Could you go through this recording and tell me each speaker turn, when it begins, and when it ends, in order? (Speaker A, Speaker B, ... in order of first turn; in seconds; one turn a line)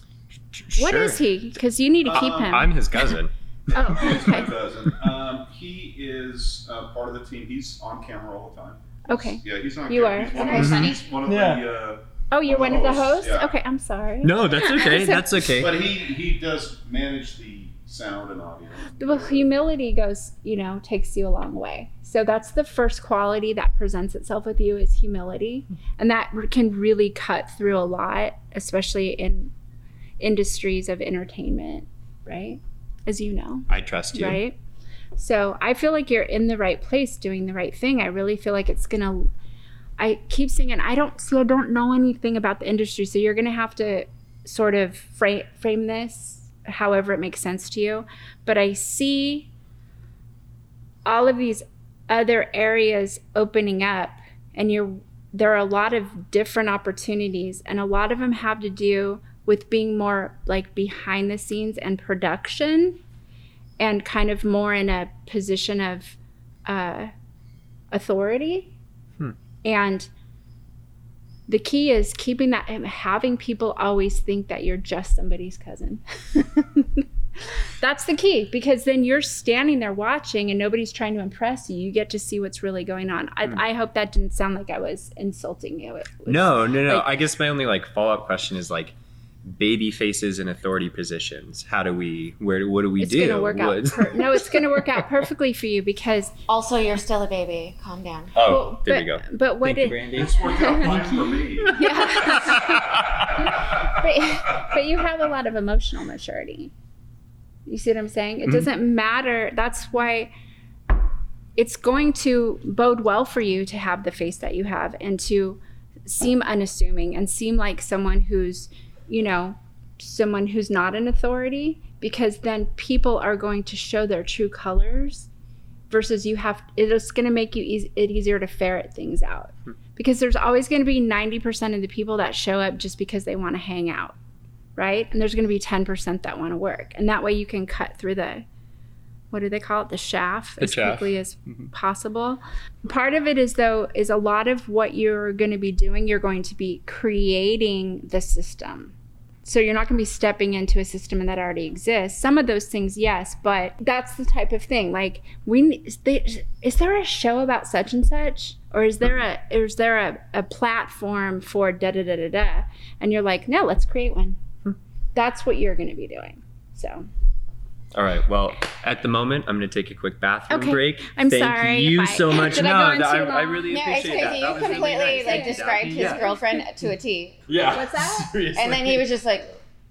Speaker A: 0.5-1.2
Speaker B: 0.8-3.1
Speaker C: 2.0-2.7
Speaker A: 2.1-4.1
Speaker B: 3.7-4.5
Speaker C: 3.8-13.6
Speaker B: 9.1-10.9
Speaker D: 10.3-11.0
Speaker A: 10.5-11.6
Speaker B: 12.3-15.3
Speaker A: 14.2-15.8
Speaker C: 15.6-19.5
Speaker B: 19.0-29.5
Speaker B: 30.2-34.6
Speaker A: 33.7-34.4
Speaker B: 35.1-39.3
Speaker B: 40.0-49.5
Speaker B: 51.0-63.0
Speaker B: 63.8-67.1
Speaker B: 67.9-68.7
Speaker B: 69.6-70.1
Speaker B: 71.5-87.1
Speaker A: 86.3-95.0
Speaker B: 93.0-96.3
Speaker D: 96.5-98.3
Speaker A: 98.3-103.5
Speaker B: 98.5-101.1
Speaker C: 100.1-101.8
Speaker B: 101.6-106.7
Speaker B: 107.7-110.3
Speaker B: 111.6-125.3
Speaker B: 125.9-134.2
Speaker B: 134.8-138.4
Speaker B: 139.3-164.4
Speaker A: 140.6-141.7
Speaker B: 165.1-167.1
Speaker A: 167.9-176.4
Speaker B: 170.5-176.6
Speaker D: 173.7-177.5
Speaker A: 177.5-179.1
Speaker B: 177.7-178.3
Speaker D: 178.5-179.5